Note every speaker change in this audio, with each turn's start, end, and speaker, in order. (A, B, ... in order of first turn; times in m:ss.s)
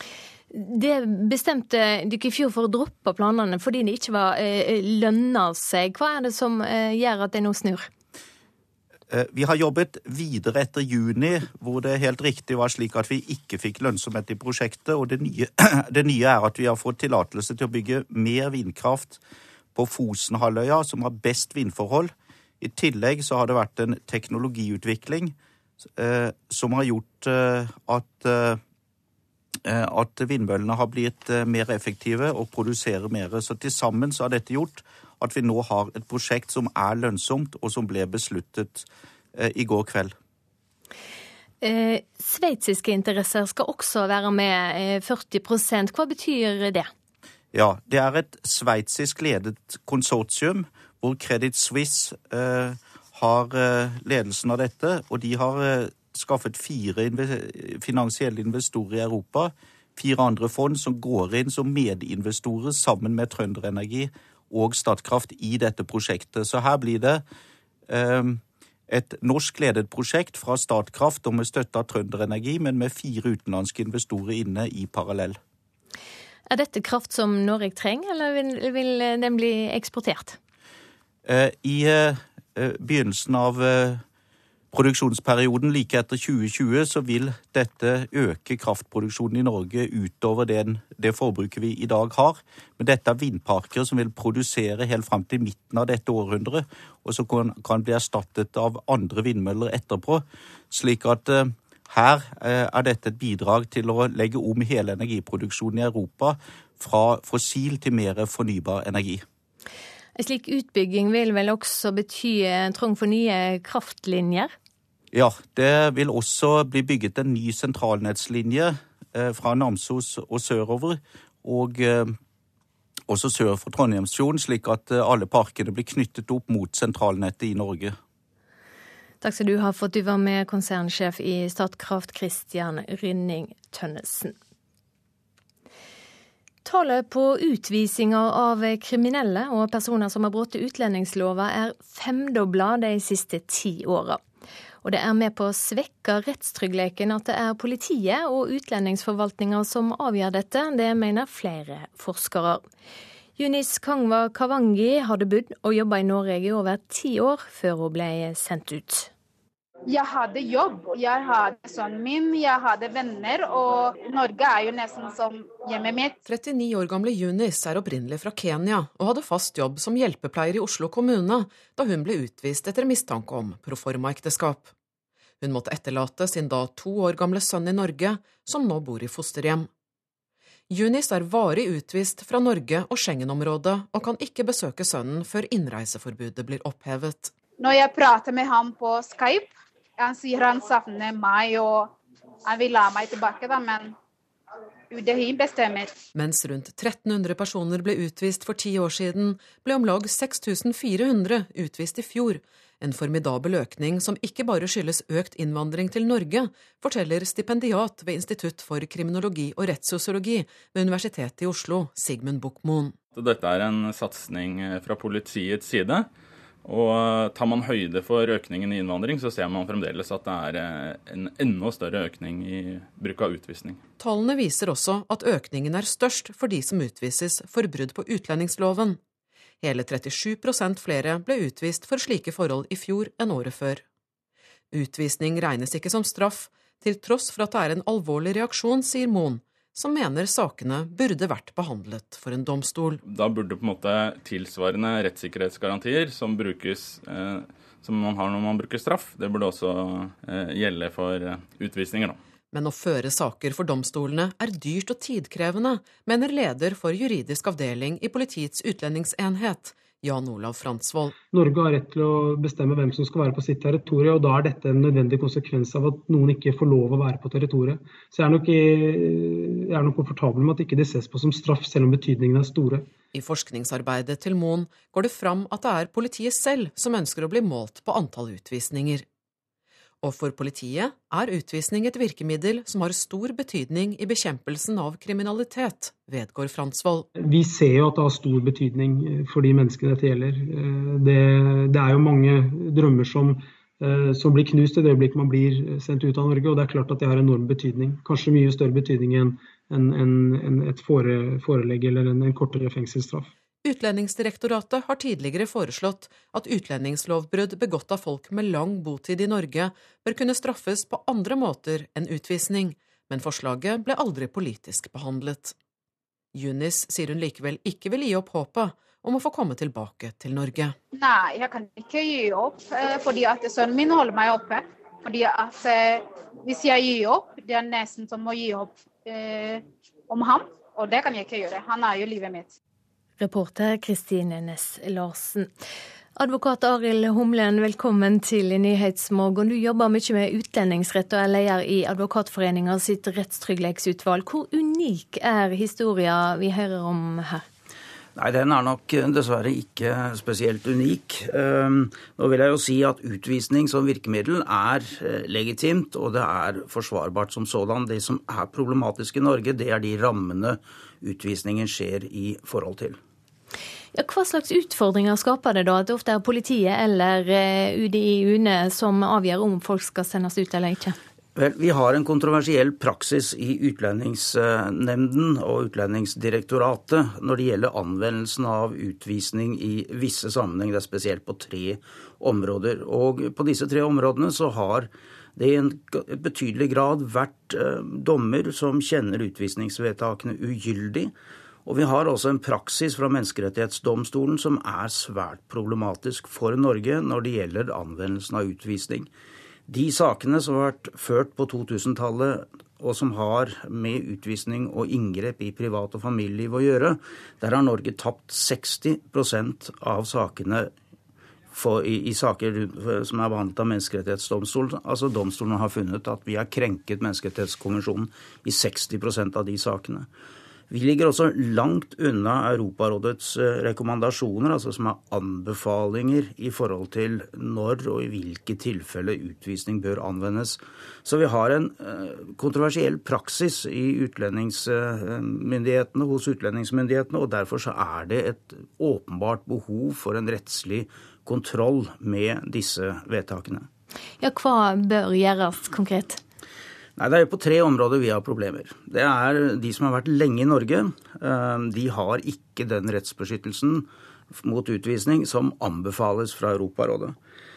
0:00.5-0:07.9 A
0:09.1-0:19.2 B
0:19.8-0:25.4 B
0:26.0-0:28.6 B
0:29.7-0:38.8 B
0:39.4-0:40.1 B
0:41.6-0:46.9 A
0:47.5-1:07.2 B
1:07.9-1:15.4 B
1:16.5-1:20.4 A
1:21.3-1:24.0 B
1:24.7-1:49.2 B
1:50.2-1:54.5 A
1:55.1-2:02.2 B
2:03.1-2:08.0 B
2:09.2-2:14.4 A
2:16.6-2:24.2 A
2:24.8-2:32.6 A
2:33.4-2:39.1 A
2:39.9-2:46.2 C
2:46.3-2:54.7 D
2:55.4-2:59.7 D
3:00.7-3:07.3 D
3:07.6-3:12.0 C
3:12.5-3:14.0 C
3:14.9-3:16.0 C
3:16.2-3:32.9 D
3:33.2-3:36.1 E
3:36.6-3:43.8 E
3:44.0-3:49.0 D
3:49.6-3:53.8 D
3:54.7-4:03.0 D
4:03.0-4:12.2 E
4:12.5-4:21.1 D
4:21.3-4:32.9 F
4:33.1-4:39.0 D
4:40.0-4:47.1 D
4:47.2-5:03.3 F
5:03.6-5:15.5 D
5:16.4-5:20.8 D
5:20.9-5:32.5 C
5:33.2-5:35.5 A
5:36.2-5:47.4 A
5:48.2-6:03.0 G
6:03.9-6:11.0 A
6:11.4-6:31.1 G
6:31.7-6:39.1 G
6:39.7-6:50.7 G
6:51.5-7:00.1 G
7:00.7-7:23.7 G
7:24.2-7:26.2 A
7:27.0-7:37.2 G